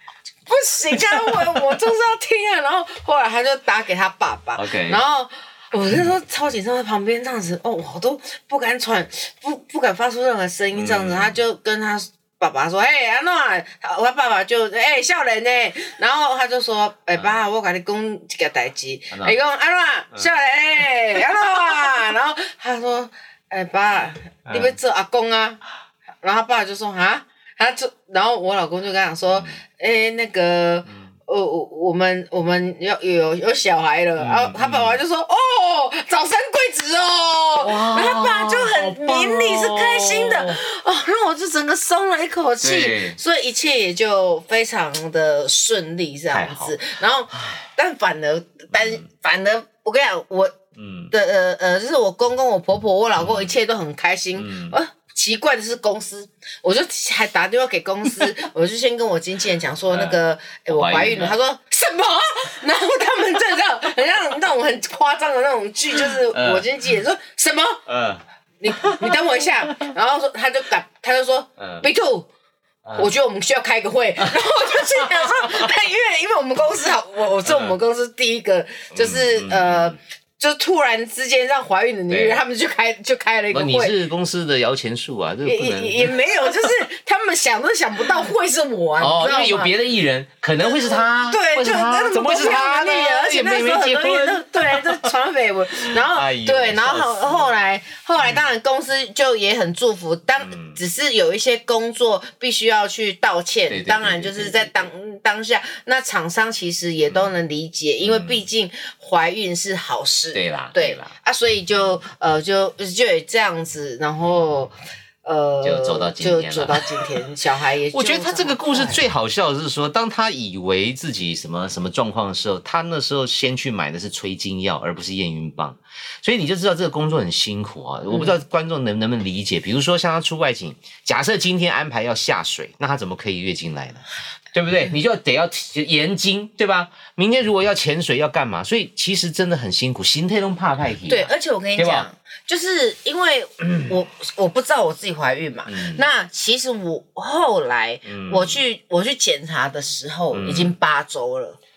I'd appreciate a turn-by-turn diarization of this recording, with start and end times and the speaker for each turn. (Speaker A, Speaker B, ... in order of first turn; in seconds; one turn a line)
Speaker A: 0.5-25.6
Speaker B: 0.9-1.8
Speaker B: 4.6-5.0
Speaker B: 10.7-11.4
Speaker B: 17.1-17.4
Speaker B: 19.1-19.4
Speaker B: 24.5-24.8
Speaker A: 26.2-50.6
Speaker B: 29.3-29.6
Speaker B: 34.2-35.0
Speaker B: 37.6-40.6
Speaker B: 42.6-43.2
Speaker B: 46.3-46.8
Speaker B: 48.7-49.0
Speaker B: 50.8-51.1
Speaker A: 51.1-67.8
Speaker B: 53.2-53.5
Speaker B: 54.4-54.8
Speaker B: 59.9-60.2
Speaker B: 60.7-61.4
Speaker B: 66.0-66.7
Speaker B: 67.9-69.9
Speaker A: 68.6-72.3
Speaker B: 71.6-71.8
Speaker B: 72.8-73.1
Speaker A: 73.0-84.0
Speaker B: 74.2-75.7
Speaker B: 77.4-77.8
Speaker B: 78.9-80.0
Speaker B: 82.1-82.4
Speaker B: 83.5-86.8
Speaker A: 85.5-89.8
Speaker B: 89.0-95.1
Speaker A: 90.6-119.0
Speaker B: 95.9-97.5
Speaker B: 98.2-98.5
Speaker B: 100.4-100.8
Speaker B: 103.7-104.9
Speaker B: 108.0-108.4
Speaker B: 110.3-111.1
Speaker B: 115.6-116.8
Speaker B: 117.9-142.1
Speaker A: 128.1-128.4
Speaker A: 141.1-151.6
Speaker B: 143.6-143.9
Speaker B: 145.7-146.1
Speaker B: 148.1-148.6
Speaker B: 150.3-150.8